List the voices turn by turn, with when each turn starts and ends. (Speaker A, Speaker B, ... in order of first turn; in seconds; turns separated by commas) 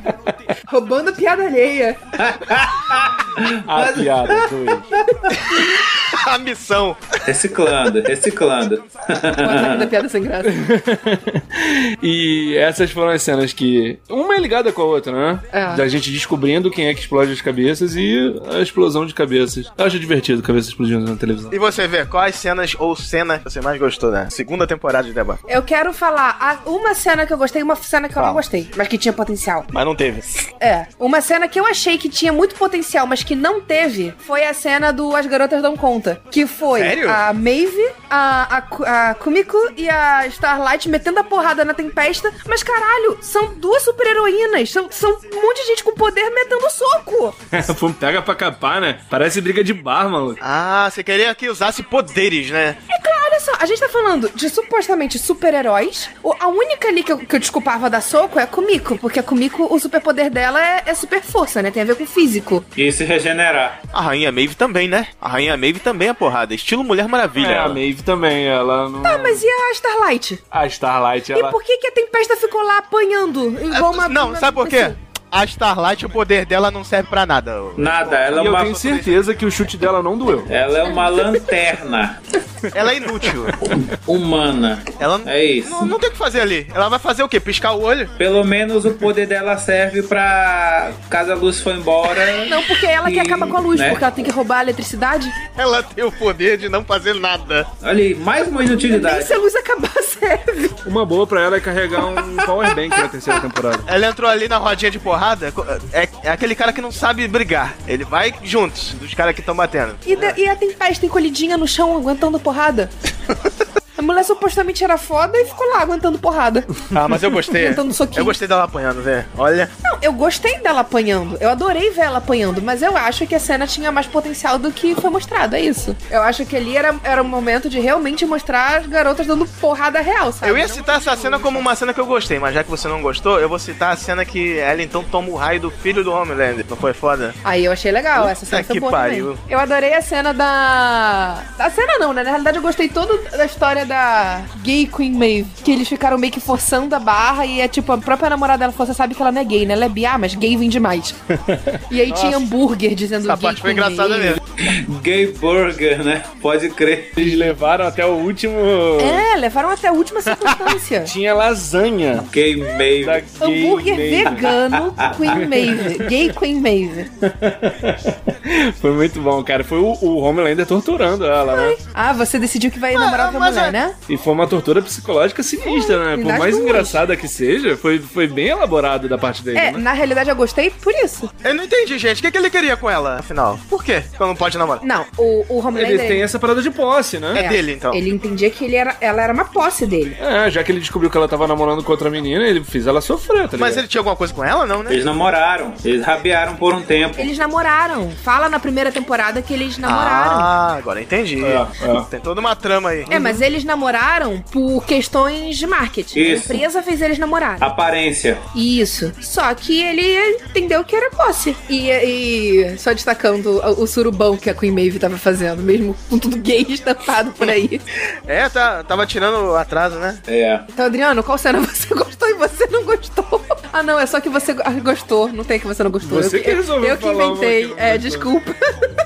Speaker A: 0.7-2.0, Speaker B: 2.2-4.4, Speaker C: 3.7-5.0, Speaker D: 5.5-7.1, Speaker B: 7.2-9.9, Speaker A: 9.4-10.6, Speaker C: 10.4-21.5, Speaker A: 15.5-15.8, Speaker D: 21.5-25.4, Speaker A: 25.5-29.7, Speaker D: 28.2-28.4, Speaker D: 29.7-30.4, Speaker A: 30.6-47.4, Speaker D: 36.7-37.2, Speaker C: 47.5-50.4, Speaker D: 50.4-52.8, Speaker A: 52.9-62.7, Speaker B: 62.8-63.8, Speaker D: 63.9-67.8, Speaker C: 67.3-69.4, Speaker A: 69.0-70.4, Speaker C: 70.5-71.5, Speaker A: 71.3-75.0, Speaker D: 73.7-79.2, Speaker B: 77.8-78.7, Speaker C: 78.3-80.5, Speaker B: 80.5-82.2, Speaker D: 82.7-83.5, Speaker B: 83.6-85.9, Speaker D: 85.0-88.1, Speaker B: 88.2-94.0, Speaker A: 92.5-95.3, Speaker D: 95.6-97.7, Speaker B: 97.8-99.4, Speaker A: 98.7-100.8, Speaker C: 100.8-103.9, Speaker D: 103.9-110.4, Speaker A: 110.0-112.9, Speaker A: 114.0-116.7, Speaker D: 116.9-119.7, Speaker A: 117.5-118.4, Speaker A: 119.8-131.7, Speaker D: 130.4-137.4, Speaker A: 137.4-151.2, Speaker D: 138.1-139.4, Speaker C: 151.5-152.4, Speaker A: 151.9-154.4, Speaker D: 153.2-154.4, Speaker B: 154.6-157.3, Speaker C: 157.2-159.3, Speaker A: 159.0-161.1, Speaker C: 161.1-162.3, Speaker B: 162.1-163.2, Speaker C: 163.0-164.6, Speaker A: 163.4-167.1, Speaker B: 164.4-165.2, Speaker C: 165.3-166.3, Speaker C: 167.2-171.8, Speaker A: 171.5-174.0, Speaker D: 172.9-173.8, Speaker C: 174.1-179.8, Speaker A: 175.7-177.0, Speaker A: 179.6-181.3, Speaker D: 181.4-184.8, Speaker A: 184.8-186.2, Speaker C: 185.7-187.4, Speaker D: 187.3-188.0, Speaker A: 187.3-190.2, Speaker C: 190.2-193.8, Speaker D: 193.6-195.0, Speaker B: 194.9-197.3, Speaker A: 197.2-200.5, Speaker D: 199.8-203.1, Speaker C: 201.4-202.1, Speaker A: 203.1-207.7, Speaker B: 206.1-206.6, Speaker B: 207.6-208.4, Speaker A: 208.5-217.8, Speaker D: 218.3-220.2, Speaker B: 220.3-220.7, Speaker A: 220.7-228.9, Speaker C: 226.0-228.3